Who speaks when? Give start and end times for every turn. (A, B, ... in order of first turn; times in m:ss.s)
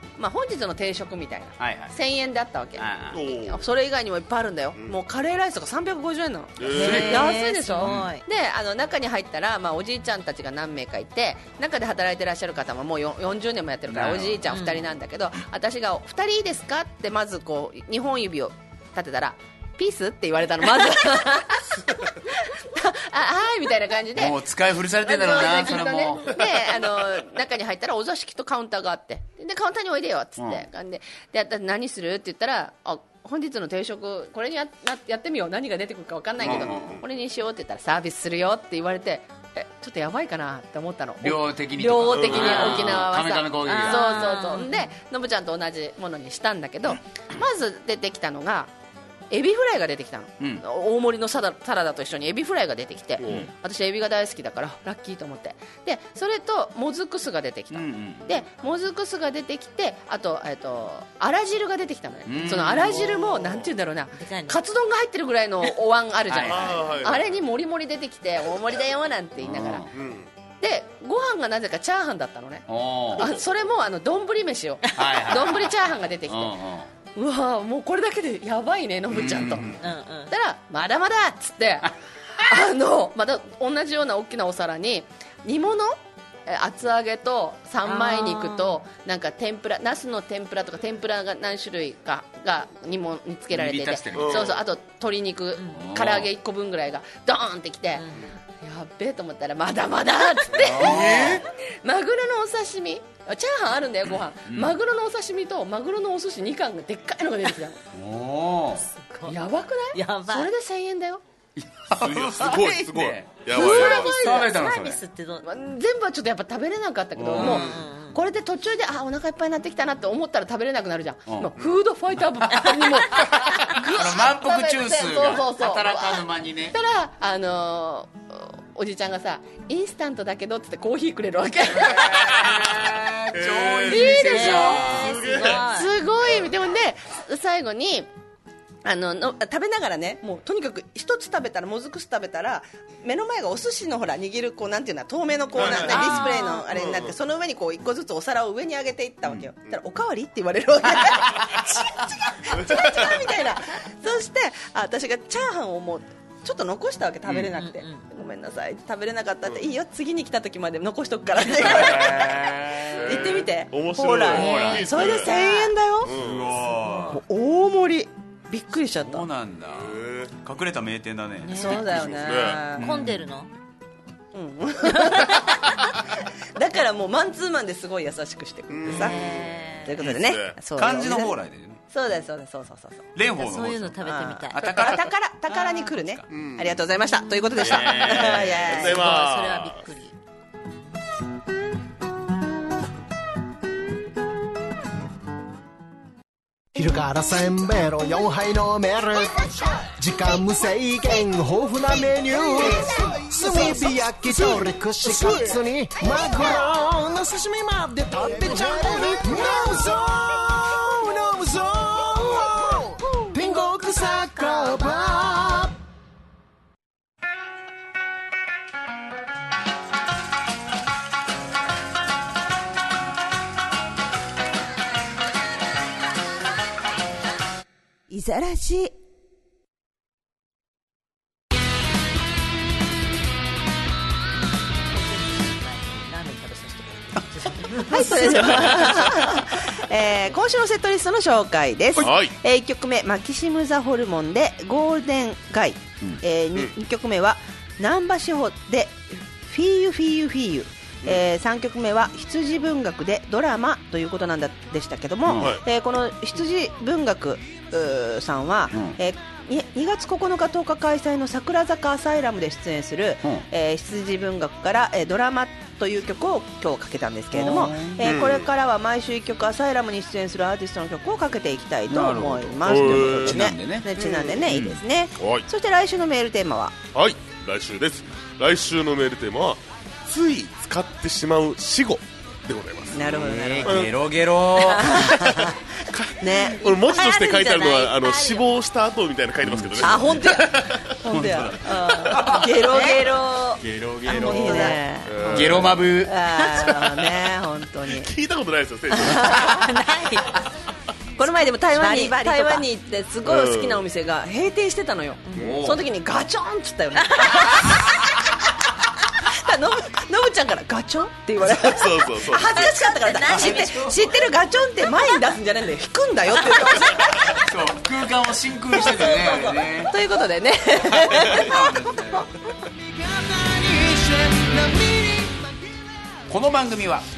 0:00.2-0:24.4 A
0:01.6-0:01.9 B
0:02.8-0:03.3 B
0:03.1-0:03.6 C
0:06.6-0:07.2 C
0:06.7-0:08.1 B
0:06.7-0:08.2 D
0:13.9-0:14.6 B
0:14.5-0:14.9 D
0:24.1-0:26.8 B
0:25.0-0:48.7 A
0:30.4-0:30.7 B
0:36.4-0:37.0 B
0:36.4-0:37.0 C
0:41.2-0:44.4 B
0:42.2-0:42.8 C
0:42.4-0:42.8 D
0:43.6-0:44.9 D
0:49.3-1:09.8 A
0:53.2-0:53.5 C
0:53.2-0:53.5 B
0:57.7-0:58.4 B
1:02.3-1:03.1 B
1:04.1-1:04.6 D
1:06.3-1:06.9 B
1:06.4-1:07.4 C
1:09.4-1:09.9 B
1:09.9-1:10.3 C
1:10.6-1:16.6 A
1:12.7-1:13.3 B
1:14.9-1:15.3 D
1:14.9-1:16.9 B
1:17.2-1:38.0 A
1:19.1-1:19.8 B
1:19.8-1:20.3 D
1:27.8-1:28.8 D
1:33.5-1:34.6 B
1:34.2-1:34.6 C
1:35.7-1:36.3 B
1:38.0-1:38.3 D
1:38.6-1:47.8 A
1:40.5-1:41.5 B
1:40.8-1:41.4 C
1:44.5-1:44.8 B
1:47.9-1:48.9 B
1:48.9-1:49.4 D
1:49.3-1:51.2 A
1:49.9-1:50.5 D
1:51.6-1:55.0 B
1:52.0-1:54.1 C
1:53.5-1:54.5 A
1:53.5-1:55.5 D
1:55.4-2:12.5 A
1:57.2-1:57.7 B
1:57.3-1:58.2 D
1:57.4-1:57.8 C
2:01.3-2:01.5 B
2:02.4-2:06.8 B
2:11.7-2:15.5 B
2:13.3-2:14.0 C
2:13.9-2:14.9 A
2:13.9-2:16.0 D
2:14.9-2:15.6 C
2:15.5-2:18.1 A
2:18.8-2:46.1 A
2:25.6-2:26.0 C
2:25.6-2:26.6 D
2:25.9-2:26.3 B
2:26.7-2:27.2 C
2:29.2-2:29.5 B
2:30.8-2:31.6 B
2:32.5-2:33.1 C
2:37.2-2:37.5 B
2:37.6-2:38.0 D
2:41.5-2:43.4 B
2:43.0-2:45.3 C
2:44.2-2:45.2 B
2:44.5-2:45.7 D
2:46.0-2:46.6 C
2:46.0-2:47.2 B
2:46.8-2:47.2 D
2:47.1-2:49.2 A
2:49.0-2:53.2 B
2:49.7-2:50.4 C
2:51.5-2:51.8 D
2:51.5-2:52.9 A
2:51.9-2:52.6 C
2:52.8-2:53.5 D
2:54.3-2:56.0 A
2:55.0-2:55.6 D
2:56.6-2:59.2 A
2:58.7-2:59.3 C
2:58.9-3:00.1 D
2:59.8-3:01.4 A
3:00.0-3:00.6 C
3:00.8-3:01.8 B
3:01.9-3:03.1 A
3:03.2-3:06.2 B
3:03.4-3:04.7 D
3:04.0-3:09.1 A
3:06.3-3:06.8 C
3:07.6-3:08.5 B
3:07.6-3:09.8 C
3:07.7-3:10.2 D
3:16.8-3:35.7 E
3:48.1-3:48.9 A
3:54.9-3:59.4 D
3:57.9-4:36.8 A
3:58.0-3:59.1 B
4:02.0-4:02.4 C
4:15.2-4:15.6 B
4:15.4-4:15.6 C
4:18.7-4:19.0 B
4:27.3-4:28.3 B
4:28.0-4:28.5 C
4:31.9-4:33.9 B
4:32.6-4:33.4 C
4:34.0-4:34.4 C
4:34.4-4:34.8 B
4:35.2-4:35.5 C
4:36.9-4:43.9 C
4:42.9-4:43.9 A
4:42.9-4:45.6 B
4:44.6-4:45.6 A
4:45.9-4:50.9 C
4:46.2-4:46.7 A
4:46.4-4:48.5 D
4:49.4-4:53.0 B
4:49.8-4:53.6 A
4:52.6-4:53.3 D
4:53.6-4:57.1 B
4:54.1-4:54.8 D
4:54.2-4:58.1 A
4:55.1-4:55.8 C
4:57.9-4:59.4 C
4:58.9-4:59.7 A
4:59.4-5:00.4 D
5:01.2-5:08.1 A
5:01.7-5:02.7 D
5:03.3-5:03.8 C
5:05.3-5:05.8 B
5:07.2-5:07.5 D
5:07.6-5:08.1 B
5:09.1-5:17.4 A
5:11.4-5:12.7 C
5:12.6-5:14.1 D
5:13.3-5:14.0 B
5:17.0-5:19.9 B
5:19.9-5:22.1 A
5:21.1-5:21.5 C
5:21.2-5:22.3 B
5:22.7-5:25.6 E
5:26.3-5:27.1 B